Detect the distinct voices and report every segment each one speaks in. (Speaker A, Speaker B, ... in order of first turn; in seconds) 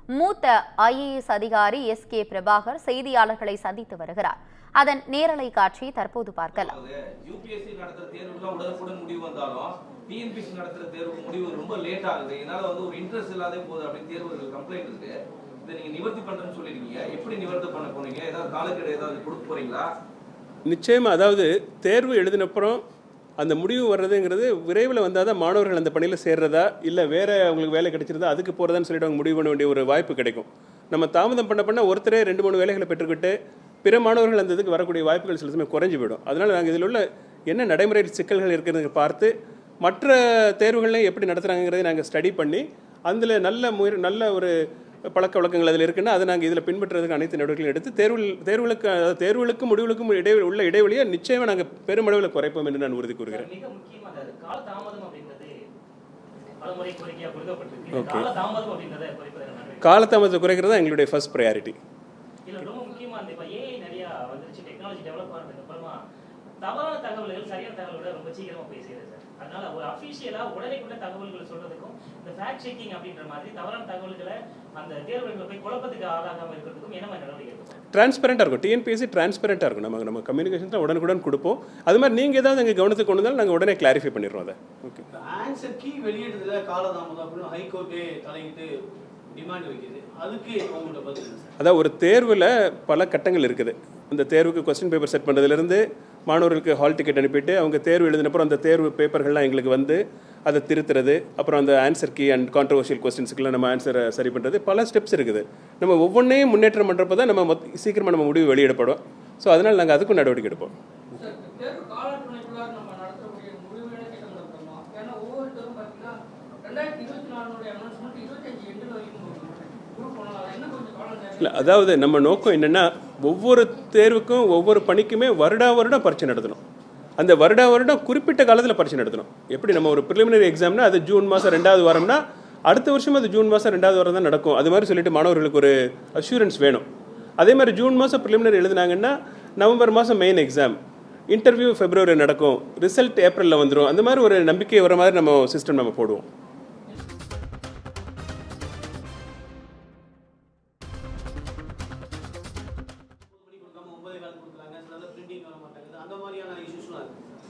Speaker A: 0.1-6.8
Speaker B: 6.5-19.9
Speaker C: 20.6-22.8, 23.4-44.5, 45.1-53.5, 57.9-58.3, 59.8-61.8, 77.9-85.0, 91.6-110.7, 121.4-126.6, 127.2-136.8, 137.4-140.8, 141.3-146.2
Speaker D: 53.3-55.5, 56.6-59.9, 62.5-66.0, 66.6-77.8
Speaker E: 85.1-88.7, 89.3-91.5, 153.2-157.1
Speaker F: 111.1-121.7